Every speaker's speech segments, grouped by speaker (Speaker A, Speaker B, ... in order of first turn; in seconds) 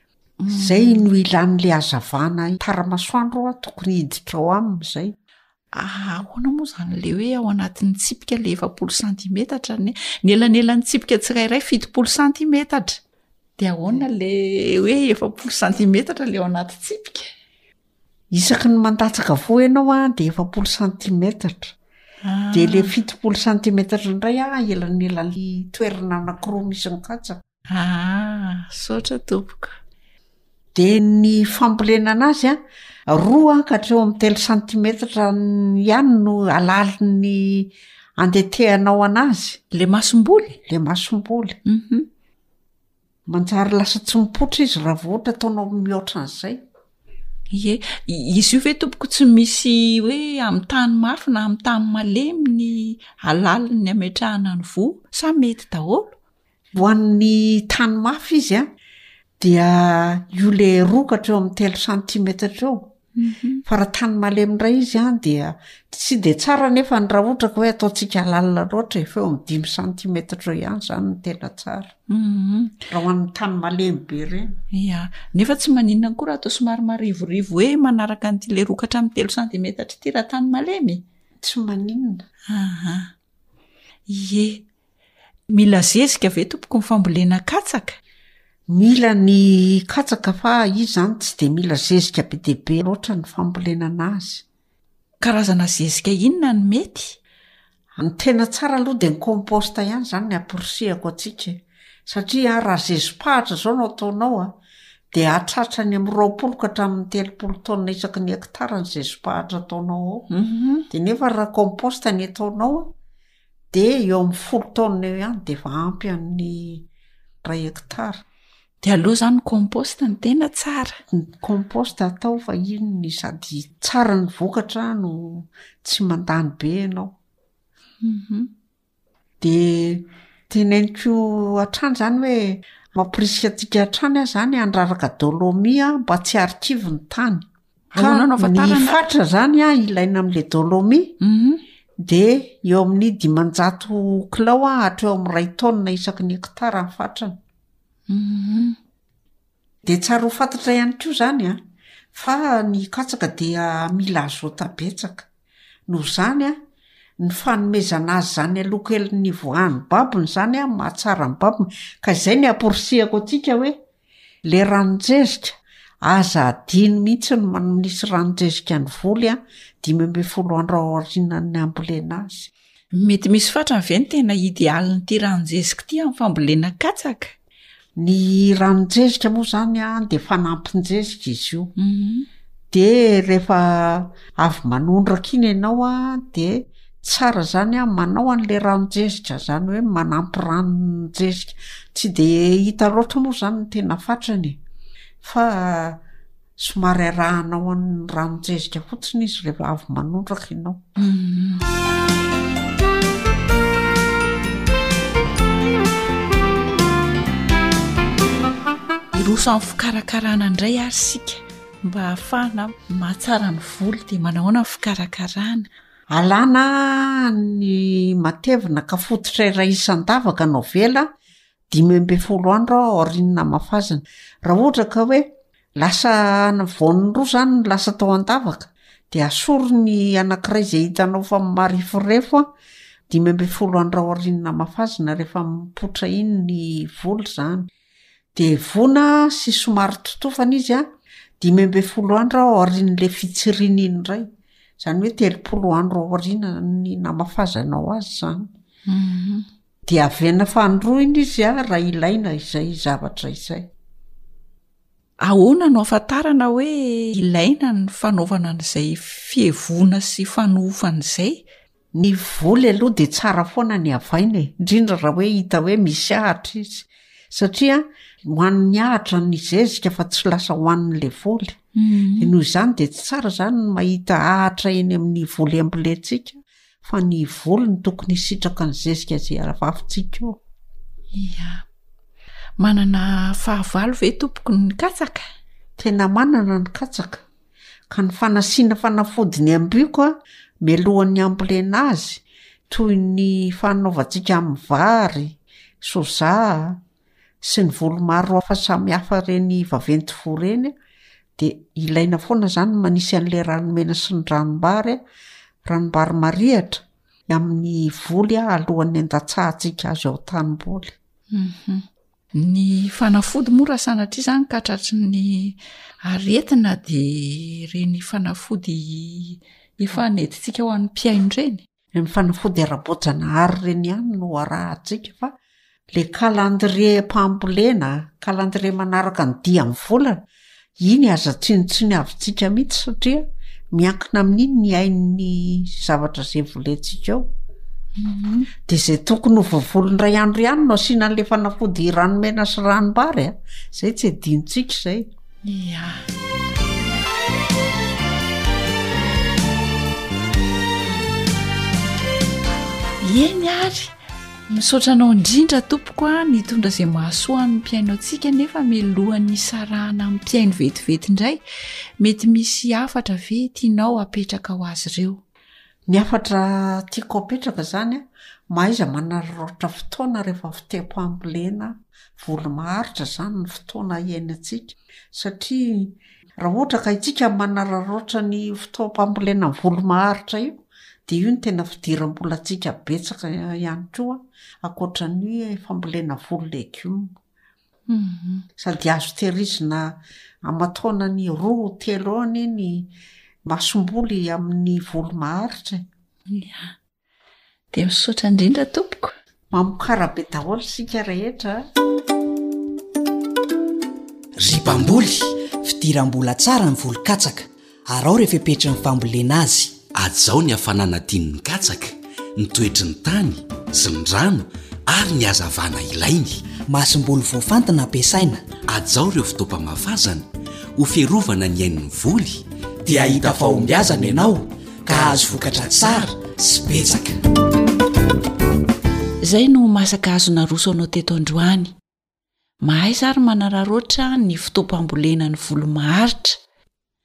Speaker A: 0.4-1.1, 5.7-13.0, 13.6-17.3, 22.2-22.9, 27.7-29.8, 39.7-40.5, 41.6-42.1, 47.5-56.1, 63.2-63.6, 72.1-72.8, 74.7-81.0, 82.5-83.1, 84.1-84.6, 85.5-88.0, 95.2-97.2, 110.3-110.8, 118.8-121.0, 128.0-128.5, 137.9-139.0, 141.2-141.6, 148.1-148.8, 172.9-177.3, 181.8-182.3, 201.0-201.6, 209.1-215.7, 248.9-249.4, 255.2-261.4, 271.8-272.3, 281.1-281.6, 282.6-285.3, 311.3-321.6, 338.0-338.5, 345.4-346.0, 353.0-353.9, 354.5-361.4, 362.0-365.2, 387.9-388.4, 396.3-396.7, 397.7-399.1, 429.2-431.7, 432.6-436.4
Speaker B: 0.5-5.1, 18.3-21.7, 22.5-27.4, 30.7-39.6, 40.6-41.6, 43.3-46.6, 56.7-58.7, 59.4-62.9, 63.6-71.9, 72.9-74.6, 81.4-82.2, 88.7-94.4, 98.0-104.6, 105.1-110.3, 110.9-112.9, 113.7-116.9, 117.4-118.2, 121.1-127.1, 129.4-141.1, 142.0-147.4, 149.8-151.6, 152.1-155.2, 155.9-156.6, 157.2-163.8, 164.4-172.5, 178.0-181.7, 182.7-194.6, 195.2-196.0, 196.6-200.8, 216.1-221.1, 221.7-232.5, 233.1-237.7, 238.3-240.9, 241.4-244.3, 244.8-248.5, 249.9-253.7, 261.9-271.6, 272.1-280.4, 285.8-287.2, 287.9-296.8, 297.4-300.7, 301.4-305.0, 305.6-310.9, 321.9-325.3, 325.9-330.2, 330.8-337.2, 338.7-345.1, 365.9-387.1, 388.6-392.9, 393.4-395.9, 399.5-401.6
Speaker C: 404.4-409.8, 416.7-418.4, 422.9-427.1
Speaker D: 404.5-405.1, 409.9-416.4, 418.7-424.3, 424.9-426.1